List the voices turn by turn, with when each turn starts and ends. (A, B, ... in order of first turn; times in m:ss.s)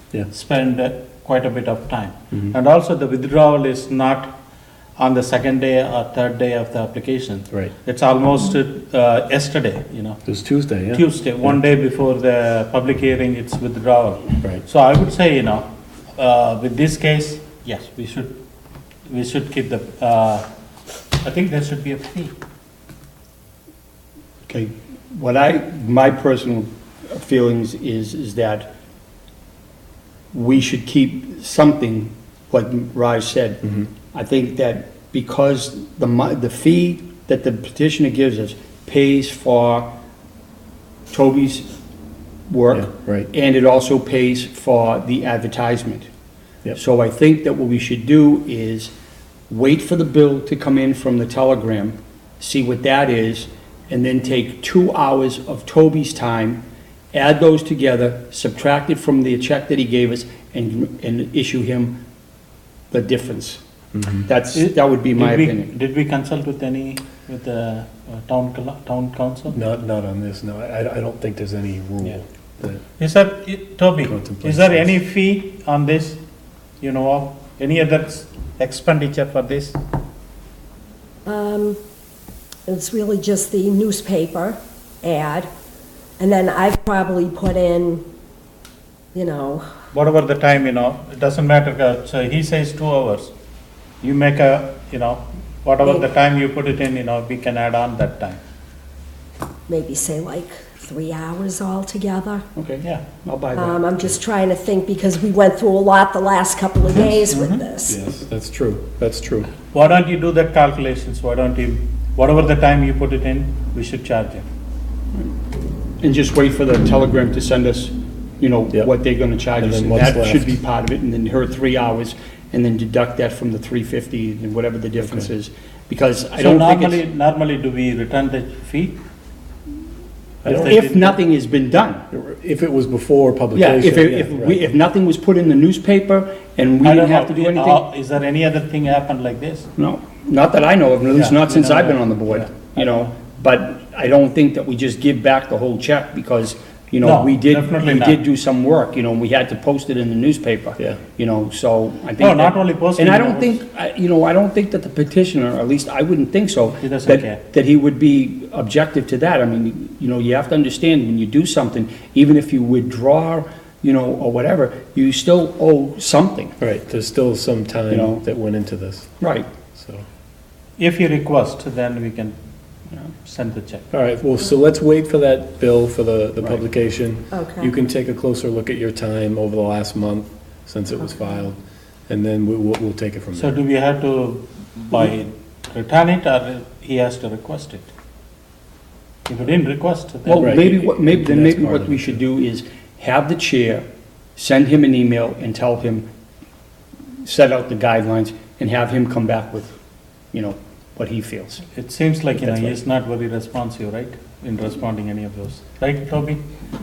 0:00.2-0:04.4 A
0:05.0-0:10.3 A
0:10.2-0:11.0 B
0:10.9-0:18.4 A
0:19.1-0:20.5 A
0:21.2-0:22.3 A
0:24.5-0:28.7 C
0:30.3-0:39.9 C
0:41.1-0:41.7 C
0:42.5-0:46.1 C
0:42.7-0:43.3 B
0:46.8-0:48.9 C
0:49.5-0:56.6 C
0:57.1-1:02.0 C
1:02.9-1:03.6 C
1:03.9-1:04.2 B
1:04.2-1:05.7 C
1:04.5-1:09.6 A
1:09.5-1:12.8 B
1:13.0-1:16.2 A
1:14.0-1:14.9 B
1:16.8-1:19.8 A
1:21.2-1:21.8 D
1:22.7-1:25.5 D
1:26.2-1:28.0 D
1:29.1-1:29.6 D
1:29.9-1:33.3 A
1:34.0-1:38.4 A
1:39.7-1:42.4 D
1:42.6-1:43.9 C
1:43.6-1:48.0 D
1:47.0-1:47.6 C
1:47.9-1:49.5 B
1:49.7-1:54.4 A
1:56.0-2:07.0 C
1:59.6-2:00.6 B
2:06.4-2:09.0 A
2:10.4-2:10.7 B
2:10.4-2:11.2 A
2:10.5-2:12.0 C
2:12.1-2:14.7 B
2:13.6-2:17.8 C
2:16.8-2:19.7 A
2:19.8-2:46.6 C
2:21.2-2:23.1 A
2:27.0-2:28.2 A
2:32.2-2:33.6 A
2:36.8-2:37.4 A
2:46.6-2:49.1 B
2:47.9-2:48.2 C
2:49.2-2:49.5 C
2:49.7-2:50.1 B
2:50.8-2:52.4 A
2:53.2-2:53.8 A
2:53.9-3:03.6 B
2:57.3-2:57.7 D
3:03.4-3:07.9 A
3:09.3-3:10.7 A
3:10.3-3:13.9 C
3:10.4-3:12.2 B
3:14.4-3:16.0 C
3:17.2-3:19.7 C
3:20.3-3:21.6 C
3:21.7-3:26.4 A
3:22.3-3:22.8 C